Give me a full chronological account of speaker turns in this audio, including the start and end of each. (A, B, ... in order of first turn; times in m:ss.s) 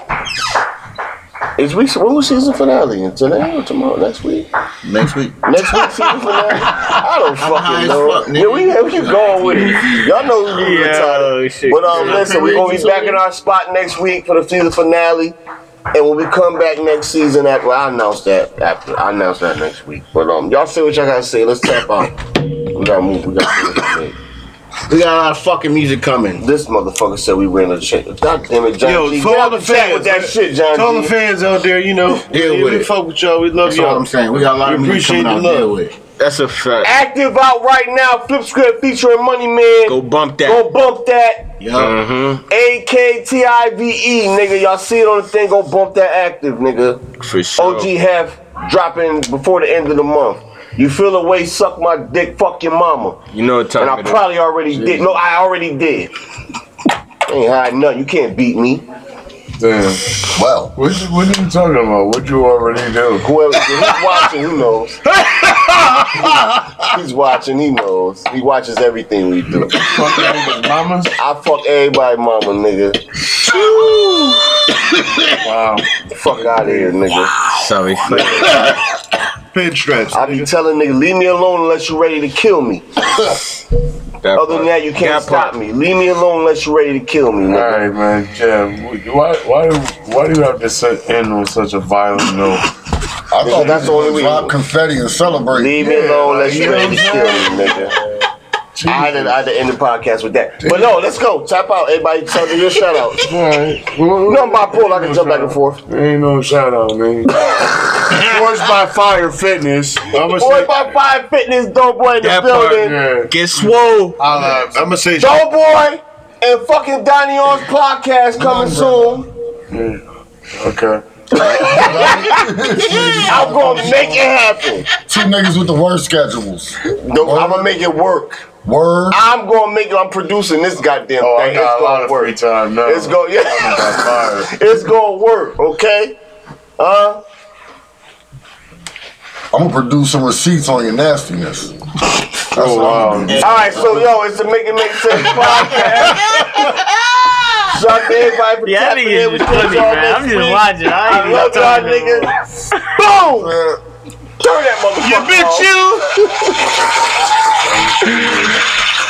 0:01.6-0:04.5 A
0:04.8-0:05.4 B
0:05.4-0:15.4 A
0:06.7-0:10.2 B
0:10.5-0:12.4 C
0:11.9-0:13.2 D
0:15.9-0:22.2 A
0:22.7-0:24.2 A
0:24.9-0:26.4 B
0:26.4-0:31.1 A
0:28.8-0:35.8 D
0:32.2-0:32.9 B
0:33.6-0:35.9 B
0:36.2-0:36.9 C
0:36.8-0:41.5 A
0:39.8-0:40.6 C
0:41.6-0:42.0 B
0:41.7-0:42.4 C
0:42.5-0:47.0 A
0:47.2-0:47.9 C
0:47.6-0:53.2 A
0:53.3-0:54.2 C
0:53.8-0:56.1 A
0:54.7-0:55.0 D
0:57.3-0:58.8 A
0:59.6-1:00.1 E
1:00.2-1:00.8 F
1:00.8-1:03.3 E
1:03.2-1:05.0 A
1:06.9-1:09.9 A
1:09.5-1:11.2 E
1:11.2-1:13.0 A
1:13.5-1:13.8 D
1:13.5-1:14.3 B
1:15.4-1:15.9 E
1:16.1-1:17.3 A
1:16.3-1:17.0 D
1:17.4-1:18.6 C
1:18.1-1:18.6 A
1:18.1-1:18.8 D
1:19.5-1:20.5 D
1:20.1-1:22.8 A
1:24.2-1:25.5 C
1:24.4-1:27.8 A
1:27.5-1:32.6 E
1:33.3-1:36.0 F
1:33.4-1:34.5 A
1:35.5-1:37.9 A
1:35.8-1:37.9 E
1:36.5-1:37.0 D
1:38.8-1:39.4 E
1:38.9-1:43.3 A
1:40.6-1:41.0 E
1:43.3-1:43.9 D
1:43.4-1:50.2 E
1:44.3-1:45.8 A
1:50.1-1:50.9 D
1:50.2-1:53.0 A
1:52.2-1:54.2 C
1:52.8-1:54.9 E
1:54.5-1:55.4 D
1:55.2-1:59.3 A
1:58.3-1:59.2 F
1:59.7-2:00.0 E
2:00.6-2:01.0 E
2:01.3-2:04.9 A
2:01.4-2:04.3 F
2:05.0-2:07.9 F
2:07.0-2:08.4 A
2:08.6-2:09.2 F
2:09.1-2:12.3 A
2:11.2-2:14.6 E
2:12.8-2:16.2 A
2:16.8-2:17.2 A
2:19.5-2:21.8 F
2:22.5-2:23.9 F
2:22.5-2:23.5 E
2:23.3-2:24.0 B
2:23.3-2:26.7 A
2:27.7-2:32.3 A
2:28.6-2:32.8 C
2:32.9-2:33.6 A
2:33.4-2:33.8 F
2:34.4-2:36.7 A
2:35.0-2:36.1 D
2:37.6-2:38.6 E